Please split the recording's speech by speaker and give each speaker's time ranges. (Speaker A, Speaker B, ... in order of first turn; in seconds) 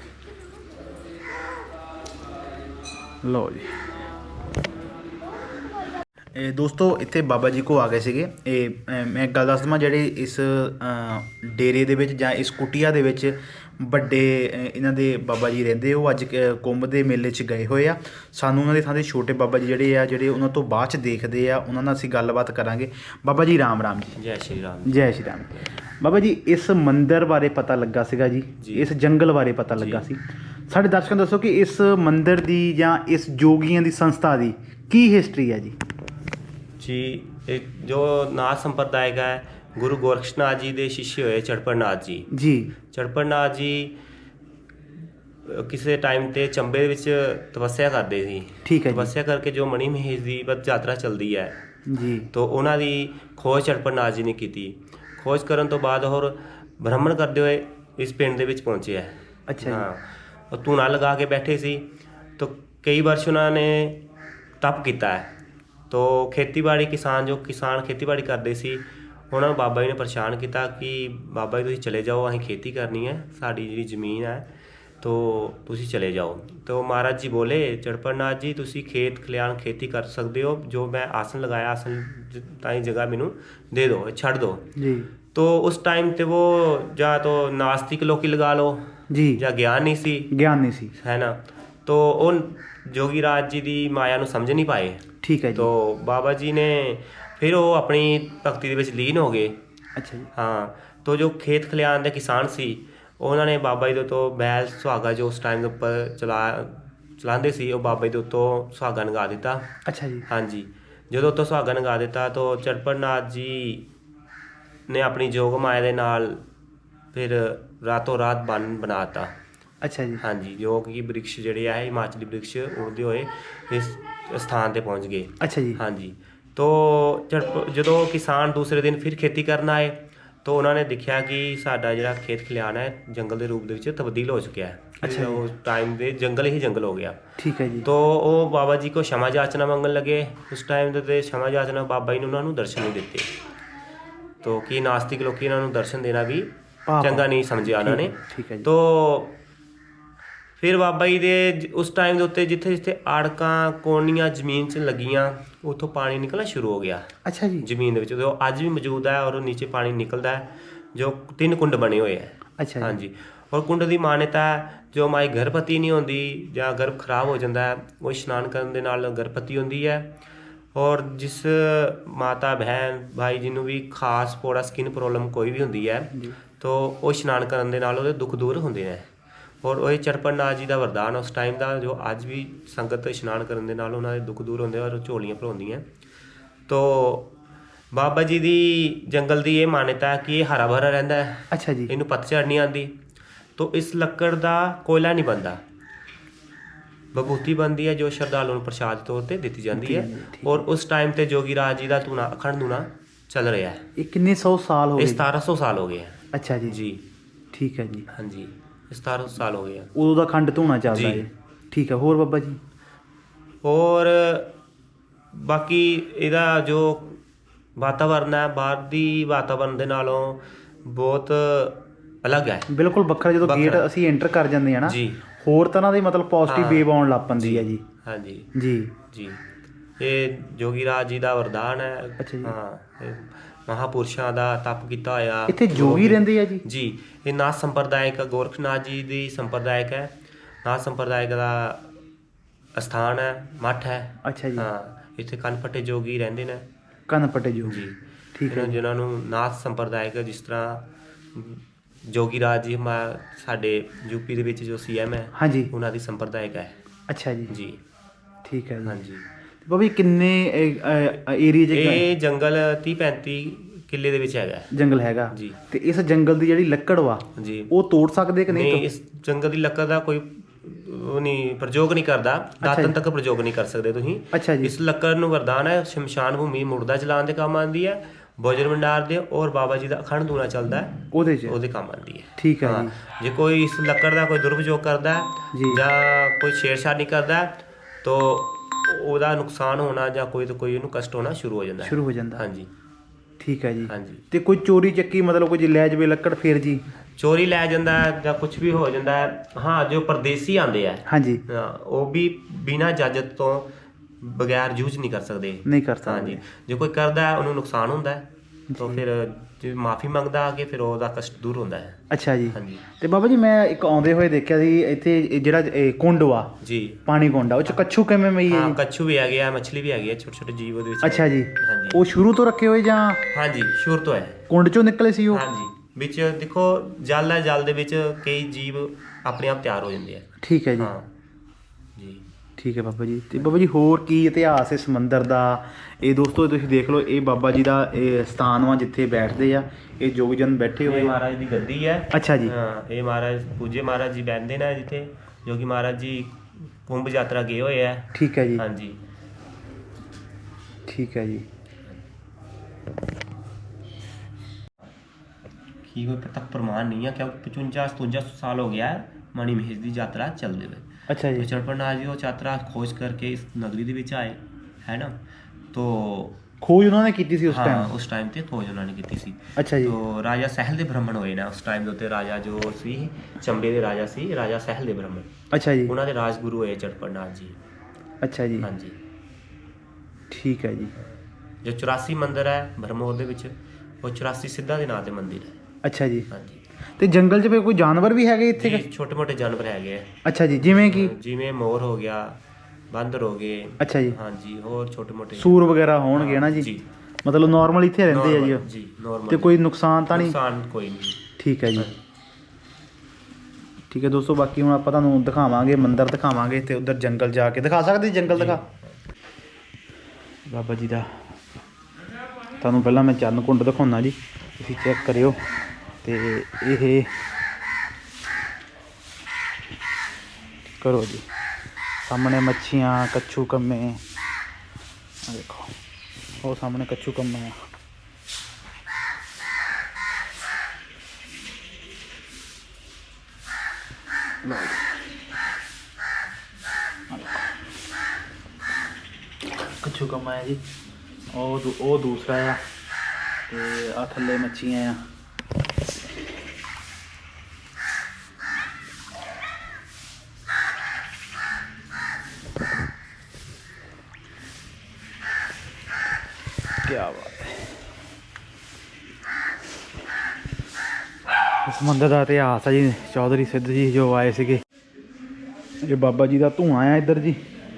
Speaker A: 3.2-3.7, 6.4-24.2, 24.9-35.8, 42.3-42.7, 48.7-49.1, 51.9-52.3, 59.5-59.9, 84.8-85.1, 89.1-89.4, 90.3-90.9, 95.2-95.7, 100.0-100.3, 109.9-110.3, 119.8-120.2, 125.4-125.8, 135.0-135.4, 137.4-137.9, 146.9-148.7, 157.3-157.7, 162.6-162.9, 191.5-191.9, 199.7-200.7, 204.0-205.2, 206.3-206.8, 207.5-208.1, 209.9-212.6, 222.7-227.8, 228.6-228.9, 232.2-232.5, 235.5-236.6, 244.2-244.7, 247.1-247.8, 248.3-248.8, 255.4-255.7, 257.1-257.5, 258.5-259.0, 259.7-262.0, 264.7-268.9, 272.6-272.9, 274.3-274.7, 281.1-281.6, 282.4-282.9, 285.5-285.8, 291.8-292.4, 293.4-296.8, 301.1-301.4, 305.7-306.4, 308.7-309.0, 312.1-316.6, 317.1-318.8, 321.0-323.2, 324.5-325.4, 330.4-330.9, 332.6-341.2, 342.1-342.5, 348.1-348.6, 350.9-351.4, 361.1-361.5, 366.6-367.9, 369.6-370.0, 375.5-375.9, 378.2-378.7, 380.3-380.9, 385.8-386.3, 387.0-388.9, 390.2-391.1, 393.8-394.1, 395.4-396.7, 397.2-398.6, 399.3-400.4, 401.4-401.9, 403.9-408.6, 410.5-411.1, 412.6-415.4, 416.0-417.1, 420.8-421.2, 422.0-424.0, 425.2-425.8, 426.4-427.5, 434.5-434.8, 437.1-437.5, 439.8-440.6, 441.3-442.6, 443.5-445.0, 456.9-457.6, 461.7-464.6, 465.8-467.4
Speaker B: 24.2-25.1, 28.6-28.9, 29.8-30.1, 36.8-42.3, 42.9-44.0, 45.5-51.5, 52.3-61.8, 62.4-64.0, 64.6-65.3, 65.9-74.5, 75.0-84.7, 85.3-90.3, 91.0-95.0, 95.5-99.6, 100.3-109.7, 110.3-113.9, 114.9-116.4, 117.1-119.3, 120.2-137.2, 137.8-143.3, 144.4-149.4, 150.6-157.1, 157.6-170.1, 170.8-179.1, 179.6-185.8, 186.7-187.3, 187.9-192.9, 193.6-195.6, 197.2-203.8, 205.0-207.0, 208.1-209.9, 210.9-211.2, 213.6-214.5, 215.3-217.2, 217.8-222.7, 223.4-223.9, 224.9-225.2, 226.5-228.5, 229.1-229.4, 230.0-240.1, 240.7-241.9, 242.8-246.7, 247.7-247.9, 248.5-256.8, 257.5-257.8, 258.9-259.2, 261.7-264.7, 265.3-265.6, 267.4-267.7, 268.5-292.7, 293.9-294.2, 297.2-303.7, 304.2-308.3, 308.8-312.8, 316.6-317.0, 318.5-322.0, 323.3-324.4, 325.3-330.3, 330.8-331.1, 332.0-332.2, 340.8-349.0, 355.9-365.2, 365.7-366.4, 367.5-375.3, 375.9-377.6, 378.6-379.0, 381.6-385.6, 386.3-386.6, 388.6-390.1, 390.8-392.4, 392.9-395.6, 396.1-396.8, 398.1-399.6, 400.1-401.2, 408.3-408.9